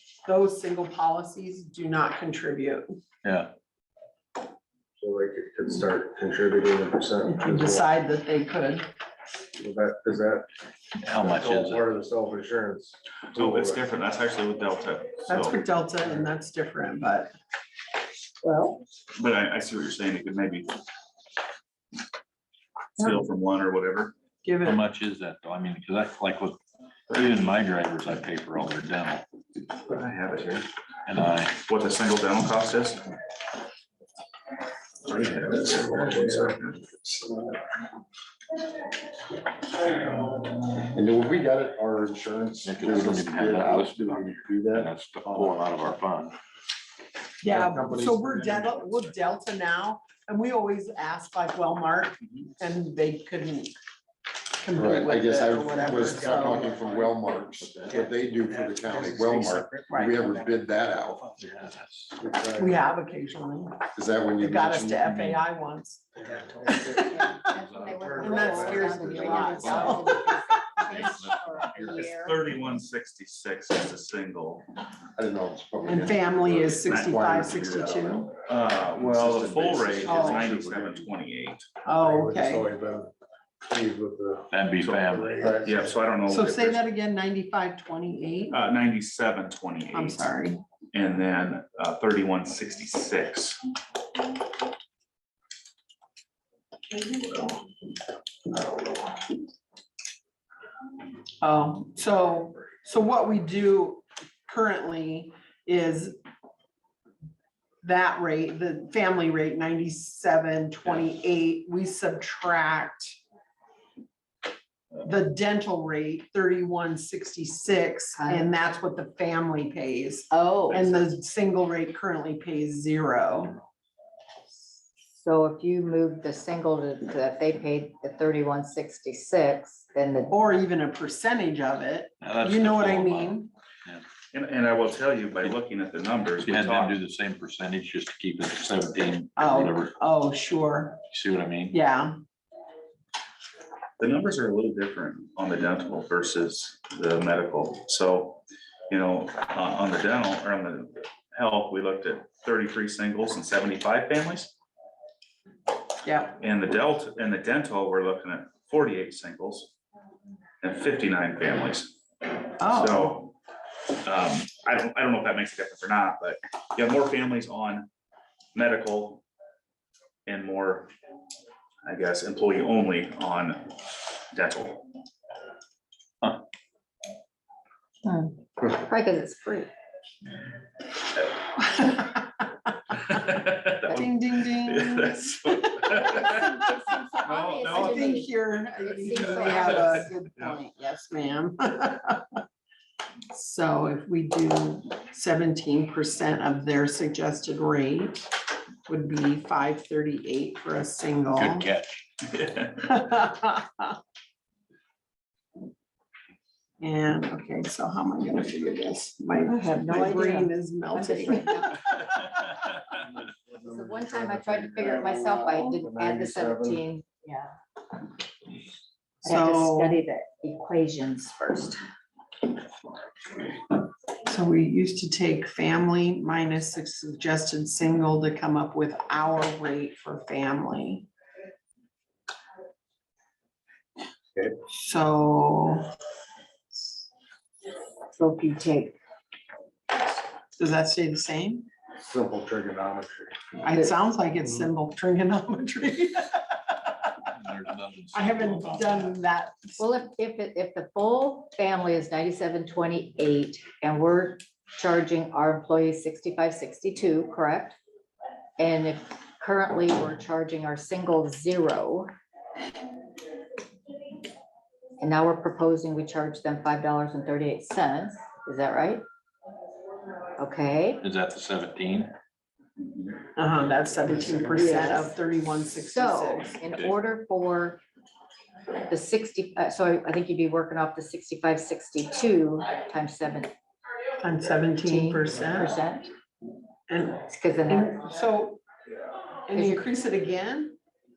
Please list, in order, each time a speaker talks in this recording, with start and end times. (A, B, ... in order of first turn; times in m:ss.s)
0:00.2-0:02.9 A
0:03.2-0:03.5 B
0:05.0-0:07.9 C
0:07.3-0:08.9 A
0:09.6-0:10.5 C
0:11.0-0:11.9 B
0:11.1-0:13.8 C
0:13.3-0:15.6 D
0:15.3-0:17.3 A
0:18.4-0:18.8 A
0:19.1-0:20.7 D
0:23.0-0:24.1 D
0:24.4-0:24.8 A
0:24.6-0:29.2 B
0:29.9-0:30.6 D
0:31.1-0:31.6 B
0:31.6-0:33.0 D
0:35.0-0:36.9 D
0:40.6-0:45.6 E
0:42.6-0:46.4 B
0:47.4-0:53.7 A
0:47.6-0:48.0 E
0:47.8-0:48.4 C
0:54.6-0:56.7 A
0:54.7-1:01.3 E
0:56.7-0:57.0 C
0:59.0-0:59.8 C
0:59.9-1:00.2 A
1:01.4-1:02.1 B
1:02.2-1:02.7 C
1:02.6-1:03.8 A
1:03.9-1:05.0 E
1:04.4-1:06.0 A
1:05.0-1:05.4 B
1:06.6-1:07.2 A
1:06.9-1:12.4 F
1:07.5-1:08.1 B
1:08.0-1:10.0 C
1:08.1-1:10.4 A
1:09.4-1:09.9 B
1:10.8-1:12.8 B
1:11.9-1:14.6 D
1:15.2-1:18.3 E
1:15.8-1:18.3 A
1:16.8-1:17.6 D
1:18.4-1:21.6 D
1:18.8-1:21.0 E
1:20.0-1:20.5 A
1:21.8-1:22.7 A
1:22.0-1:23.1 C
1:23.6-1:24.5 C
1:24.5-1:25.4 B
1:24.8-1:26.8 D
1:25.1-1:25.7 C
1:26.2-1:28.6 A
1:28.5-1:30.3 D
1:29.9-1:30.6 A
1:30.9-1:33.6 D
1:41.4-1:46.2 A
1:47.8-1:53.2 A
1:55.0-2:03.6 A
1:58.2-1:58.5 F
2:00.3-2:01.0 F
2:05.1-2:10.3 F
2:10.3-2:13.5 A
2:12.2-2:14.0 B
2:14.3-2:17.0 D
2:16.4-2:19.9 B
2:19.4-2:21.0 A
2:21.1-2:21.8 B
2:21.7-2:22.1 A
2:24.0-2:34.5 D
2:36.0-2:36.4 A
2:36.4-2:39.7 D
2:40.6-2:43.3 D
2:42.6-2:43.2 A
2:44.0-2:47.9 D
2:48.5-2:49.2 D
2:50.2-2:50.9 D
2:51.8-2:53.7 D
2:54.3-2:54.9 D
2:58.0-2:59.7 F
3:01.6-3:02.2 A
3:03.0-3:06.3 D
3:03.9-3:06.4 A
3:05.9-3:10.1 F
3:07.2-3:08.0 D
3:07.6-3:12.4 A
3:09.2-3:09.8 D
3:13.3-3:18.3 A
3:18.9-3:21.7 A
3:21.3-3:22.0 B
3:22.3-3:23.0 D
3:22.9-3:24.0 A
3:26.8-3:31.8 A
3:29.5-3:32.0 F
3:33.3-3:36.8 C
3:33.6-3:37.5 F
3:39.2-3:41.8 F
3:39.2-3:40.0 A
3:44.2-3:51.1 A
3:54.7-3:55.9 A
3:58.1-3:59.0 F
4:00.6-4:01.7 A
4:02.0-4:03.3 C
4:03.6-4:06.4 A
4:07.3-4:09.2 B
4:08.1-4:09.8 A
4:09.8-4:17.8 F
4:18.6-4:22.1 F
4:25.0-4:29.0 F
4:30.4-4:31.0 F
4:31.0-4:32.1 B
4:32.8-4:33.2 D
4:33.4-4:36.6 A
4:34.5-4:35.1 F
4:35.8-4:37.8 F
4:36.6-4:37.0 B
4:38.9-4:43.5 F
4:44.2-4:45.7 A
4:44.8-4:46.1 F
4:46.9-4:48.6 A
4:47.2-4:48.0 F
4:49.5-4:50.7 A
4:49.5-4:49.8 F